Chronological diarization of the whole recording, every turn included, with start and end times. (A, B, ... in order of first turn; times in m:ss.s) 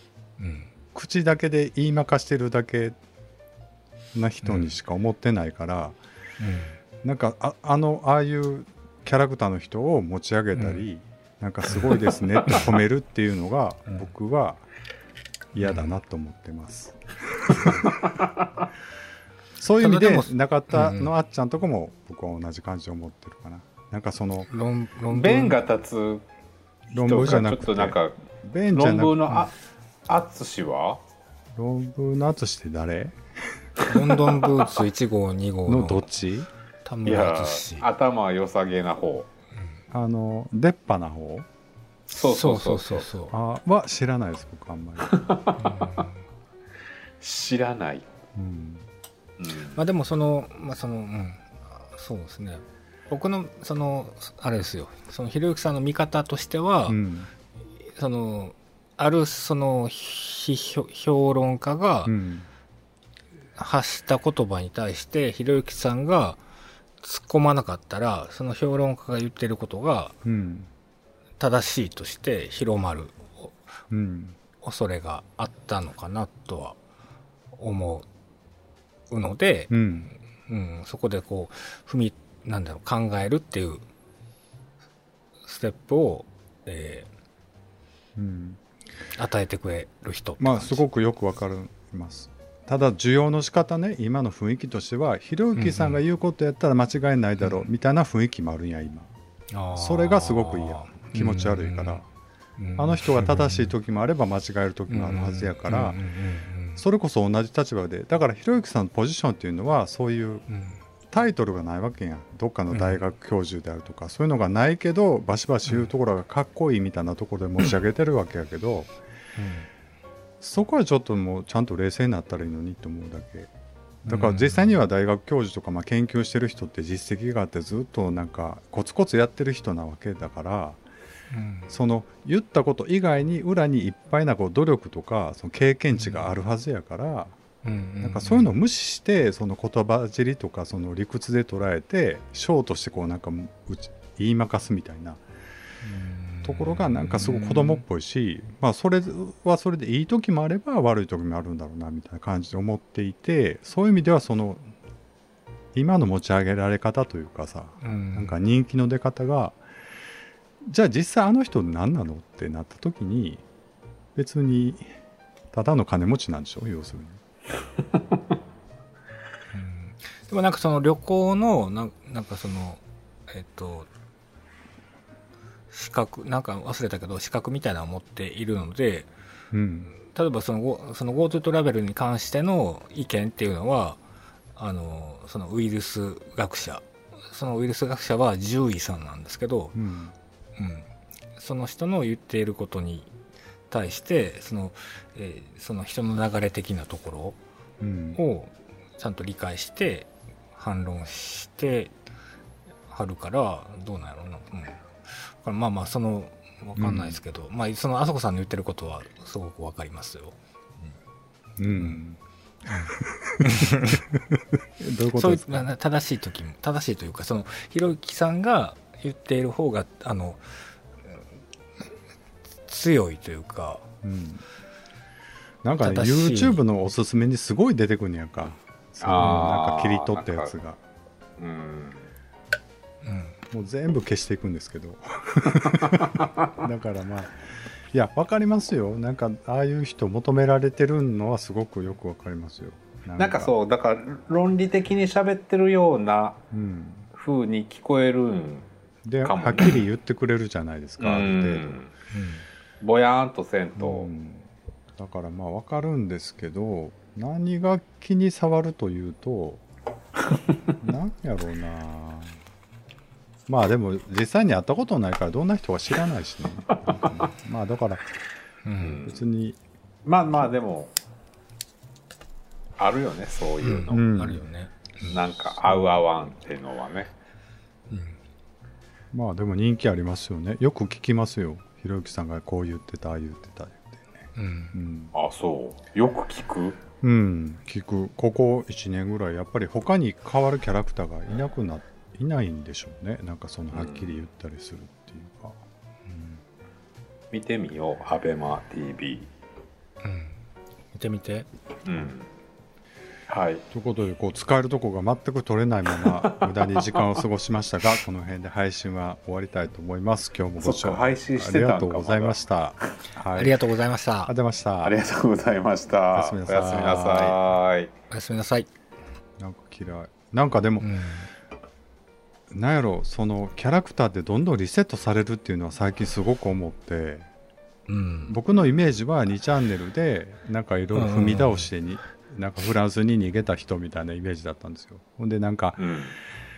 0:00.4-0:00.7 A
0:00.9-0:03.0 B
0:04.1-0:06.0 B
0:04.4-0:04.8 A
0:06.4-0:06.8 A
0:07.0-0:14.6 B
0:10.5-0:10.8 A
0:11.7-0:12.0 A
0:15.5-0:18.0 B
0:15.6-0:15.9 A
0:19.6-0:24.5 B
0:19.8-0:21.1 A
0:24.5-0:25.6 A
0:25.1-0:26.2 C
0:26.9-0:28.2 C
0:26.9-0:29.5 B
0:28.7-0:29.5 C
0:30.1-0:31.0 C
0:31.6-0:33.2 B
0:33.9-0:36.1 A
0:34.1-0:34.6 C
0:35.6-0:36.5 B
0:36.8-0:37.9 A
0:37.0-0:39.3 C
0:39.9-0:41.5 B
0:42.1-0:43.1 C
0:42.2-0:43.3 A
0:43.3-0:45.3 B
0:45.1-0:46.0 C
0:45.6-0:46.2 A
0:47.2-0:48.0 C
0:48.4-0:48.8 B
0:49.4-0:49.8 C
0:49.7-0:57.0 A
0:56.9-0:57.3 B
0:57.8-1:02.1 A
1:02.0-1:02.5 B
1:03.6-1:06.4 A
1:07.0-1:10.1 A
1:10.2-1:10.7 B
1:11.4-1:13.5 A
1:13.9-1:14.4 B
1:14.6-1:16.8 A
1:17.6-1:18.1 A
1:19.1-1:19.8 A
1:19.7-1:20.1 B
1:20.4-1:23.8 A
1:25.4-1:27.1 A
1:28.2-1:28.6 B
1:29.2-1:30.8 A
1:30.4-1:39.1 B
1:35.6-1:36.0 A
1:39.5-1:42.0 A
1:39.7-1:42.0 B
1:42.6-1:43.7 A
1:42.8-1:46.0 B
1:44.9-1:46.8 A
1:46.8-1:50.4 B
1:50.5-1:50.8 A
1:51.1-1:58.9 B
1:52.7-1:53.0 A
1:59.4-1:59.7 A
2:00.4-2:03.5 B
2:04.0-2:10.8 B
2:04.1-2:04.8 A
2:11.3-2:11.7 A
2:11.7-2:17.3 B
2:16.0-2:16.3 A
2:17.6-2:18.5 A
2:18.0-2:25.2 B
2:25.8-2:27.8 A
2:26.4-2:34.6 B
2:35.7-2:39.6 B
2:37.8-2:38.4 A
2:40.6-2:43.4 B
2:44.2-2:44.8 B
2:45.5-2:47.2 B
2:49.5-2:53.9 A
2:55.7-2:59.1 A
2:59.5-2:59.9 B
3:00.0-3:04.0 A
3:04.6-3:09.8 A
3:09.7-3:10.1 B
3:10.6-3:13.1 A
3:13.7-3:17.4 A
3:17.8-3:18.2 B
3:18.1-3:21.9 A
3:22.9-3:30.9 A
3:26.8-3:27.2 B
3:31.6-3:32.2 B
3:31.7-3:32.0 A
3:32.7-3:34.0 A
3:33.0-3:33.8 B
3:34.8-3:35.7 B
3:35.1-3:41.2 A
3:42.7-3:43.9 A
3:44.0-3:44.4 B
3:45.6-3:50.8 B
3:45.8-3:46.6 A
3:49.0-3:50.5 C
3:51.4-3:52.1 C
3:53.0-3:53.4 A
3:53.5-4:03.5 B
3:56.0-3:56.5 C
4:03.2-4:06.4 C
4:06.5-4:07.1 B
4:07.1-4:08.7 C
4:09.0-4:11.8 B
4:09.2-4:09.8 C
4:11.0-4:11.9 C
4:12.1-4:12.4 A
4:12.8-4:14.1 C
4:13.8-4:19.6 B
4:20.8-4:22.4 B
4:23.5-4:28.0 B
4:28.6-4:29.0 A
4:28.8-4:29.2 C
4:29.0-4:29.6 B
4:30.0-4:30.9 C
4:32.8-4:34.0 C
4:33.6-4:35.2 A
4:33.9-4:34.4 B
4:35.0-4:37.1 C
4:37.9-4:38.2 A
4:39.1-4:45.1 B
4:44.4-4:44.8 A
4:45.1-4:46.8 C
4:47.0-4:56.4 B
4:53.7-4:54.1 C
4:57.3-4:59.3 C
5:00.0-5:00.4 A
5:00.9-5:01.5 A
5:01.8-5:02.2 C
5:03.3-5:03.6 C
5:03.7-5:13.6 B
5:06.0-5:07.0 C
5:10.6-5:12.4 C
5:13.3-5:14.3 A
5:14.3-5:15.0 B
5:14.8-5:17.9 C
5:16.1-5:17.4 B
5:18.1-5:18.7 A
5:19.4-5:20.9 B
5:20.8-5:21.3 A
5:22.5-5:27.2 B
5:27.9-5:28.4 A
5:28.3-5:35.8 B
5:30.9-5:31.7 A
5:35.8-5:36.1 C